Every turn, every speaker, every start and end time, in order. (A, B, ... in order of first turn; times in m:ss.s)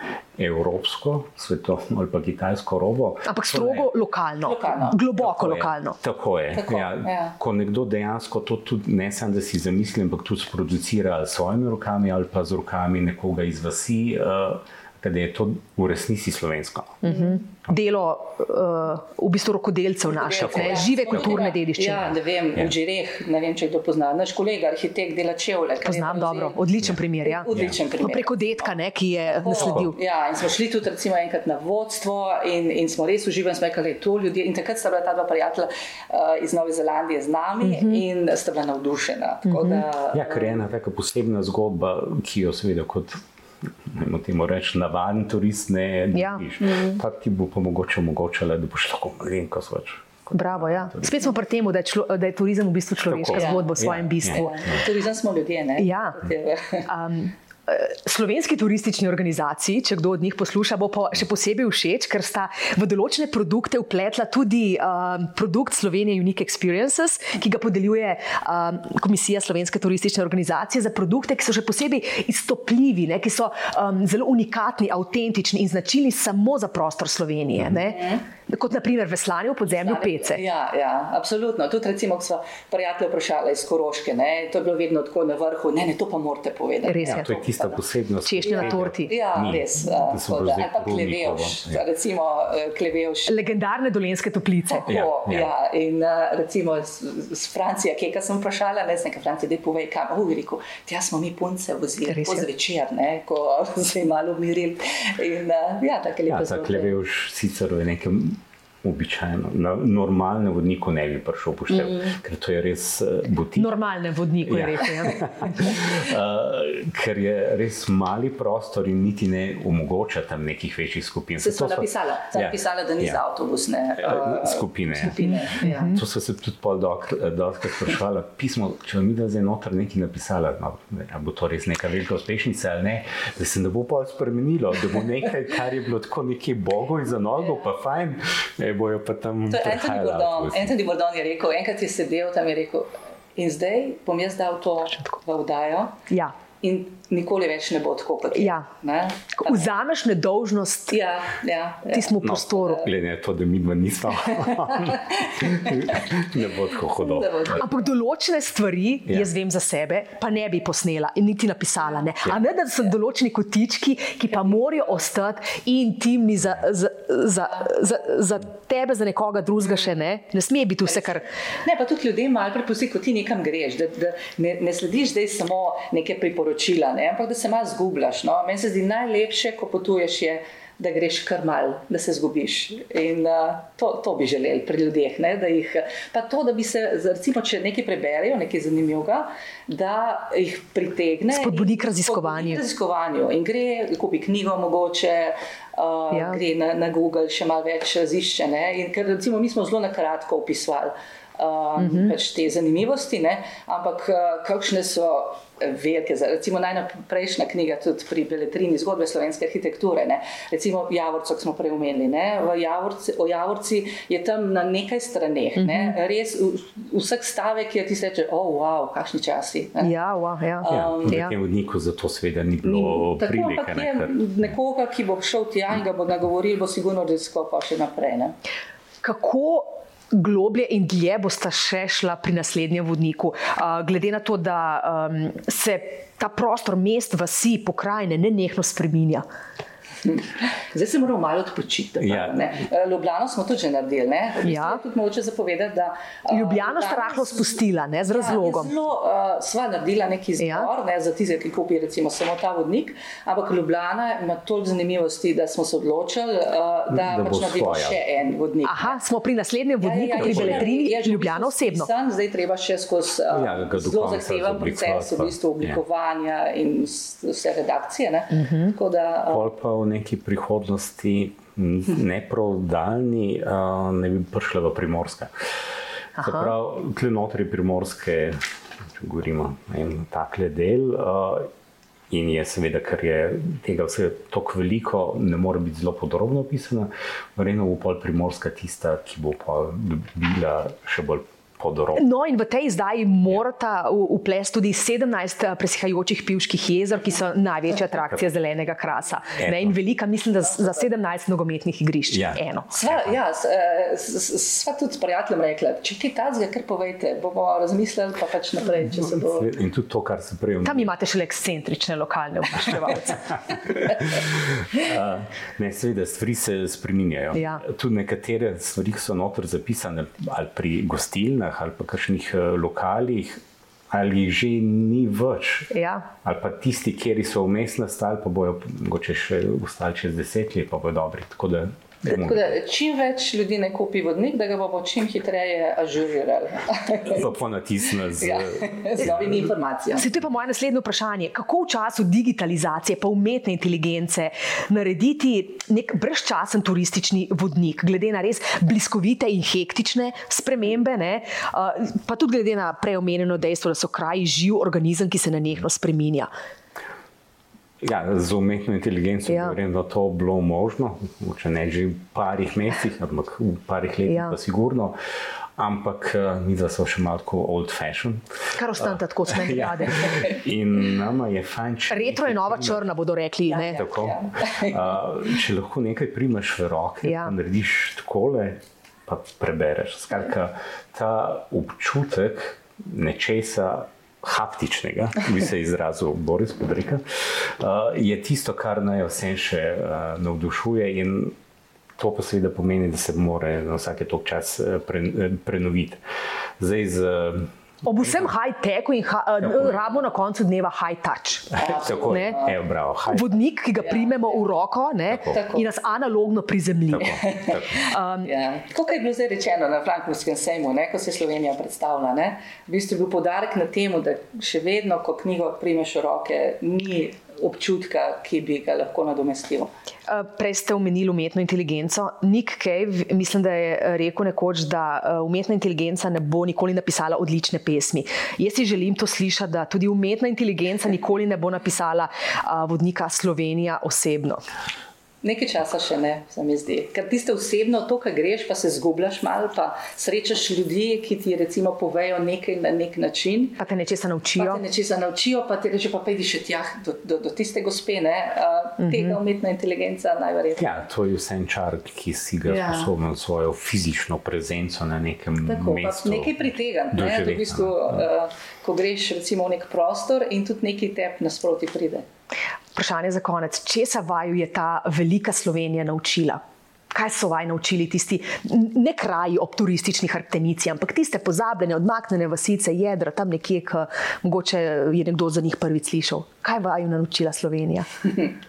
0:00.4-0:03.9 A
0:03.2-0:06.0 B
0:04.4-0:05.0 C
0:05.2-0:17.0 A
0:06.5-0:07.4 C
0:17.0-0:22.1 B
0:17.0-0:17.4 C
0:20.1-0:26.6 C
0:20.4-0:21.5 A
0:25.8-0:29.9 B
0:27.2-0:28.7 C
0:27.5-0:27.8 A
0:29.3-0:40.6 C
0:29.5-0:29.9 A
0:37.6-0:38.0 B
0:39.4-0:39.8 B
0:40.1-0:43.2 A
0:43.8-0:51.2 A
0:46.1-0:46.8 B
0:46.6-0:47.0 C
0:50.3-0:54.7 B
0:53.1-0:54.8 A
0:53.3-0:53.8 C
0:54.3-0:56.9 C
0:55.8-0:56.2 B
0:56.9-1:20.4 B
1:17.9-1:18.2 C
1:19.7-1:27.8 C
1:26.8-1:27.2 B
1:27.0-1:31.8 A
1:28.2-1:29.1 B
1:28.4-1:33.5 C
1:33.3-1:34.8 B
1:34.7-1:47.0 C
1:34.9-1:35.5 A
1:42.1-1:42.4 B
1:46.2-1:53.7 A
1:53.6-1:55.8 B
1:54.4-2:03.2 A
2:01.4-2:06.0 C
2:04.0-2:20.7 A
2:05.6-2:06.0 B
2:19.5-2:26.0 C
2:26.6-2:29.7 C
2:28.3-2:28.7 B
2:29.4-2:31.0 B
2:30.9-2:32.2 C
2:31.9-2:32.9 B
2:32.2-2:37.6 A
2:34.5-2:36.1 C
2:37.0-2:37.7 C
2:37.6-2:51.2 B
2:44.5-2:44.8 C
2:50.9-3:40.0 C
3:11.3-3:12.6 B
3:16.1-3:16.4 B
3:21.8-3:22.1 B
3:35.6-3:35.9 B
3:39.8-3:41.3 B
3:40.6-3:41.2 C
3:40.7-3:44.2 A
3:42.6-3:48.3 C
3:49.0-3:59.2 B
4:00.0-4:19.0 C
4:02.0-4:02.5 A
4:04.4-4:04.8 B
4:06.3-4:08.7 B
4:10.4-4:10.7 B
4:16.9-4:18.0 A
4:18.6-4:21.9 B
4:19.8-4:29.5 C
4:20.2-4:20.7 A
4:23.3-4:25.8 A
4:28.3-4:28.7 B
4:29.3-4:35.3 A
4:36.2-4:36.5 B
4:36.2-4:38.4 A
4:39.0-4:41.5 A
4:42.1-4:52.0 A
4:52.0-5:02.7 B
4:59.4-4:59.8 A
5:02.1-5:03.2 A
5:02.7-5:09.5 C
5:09.0-5:10.9 A
5:10.6-5:13.2 B
5:13.6-5:32.5 A
5:17.3-5:17.6 B
5:25.7-5:26.1 B
5:32.0-5:37.3 C
5:37.0-5:39.5 A
5:38.2-5:40.1 C
5:39.9-5:56.3 B
5:57.8-6:05.0 A
5:59.3-5:59.6 B
6:04.1-6:04.4 B
6:05.6-6:12.8 A
6:08.6-6:10.2 B
6:10.0-6:10.4 C
6:11.9-6:13.8 B
6:13.5-6:15.0 C
6:13.7-6:31.4 A
6:17.0-6:17.4 B
6:32.0-6:36.0 A
6:36.6-6:38.3 A
6:37.8-6:42.4 B
6:39.4-6:39.8 A
6:41.5-6:43.4 A
6:41.6-6:42.6 C
6:43.1-6:47.2 B
6:43.8-6:44.4 C
6:45.1-6:45.4 A
6:45.3-6:45.7 C
6:46.9-6:47.9 A
6:47.8-6:48.3 B
6:48.2-6:59.7 C
7:00.1-7:14.4 B
7:15.2-7:23.6 C
7:23.6-7:24.6 B
7:24.4-7:30.7 C
7:28.8-7:29.2 B
7:30.6-7:38.0 A
7:32.4-7:32.9 C
7:35.4-7:42.1 C
7:42.7-7:46.4 B
7:46.9-7:57.9 B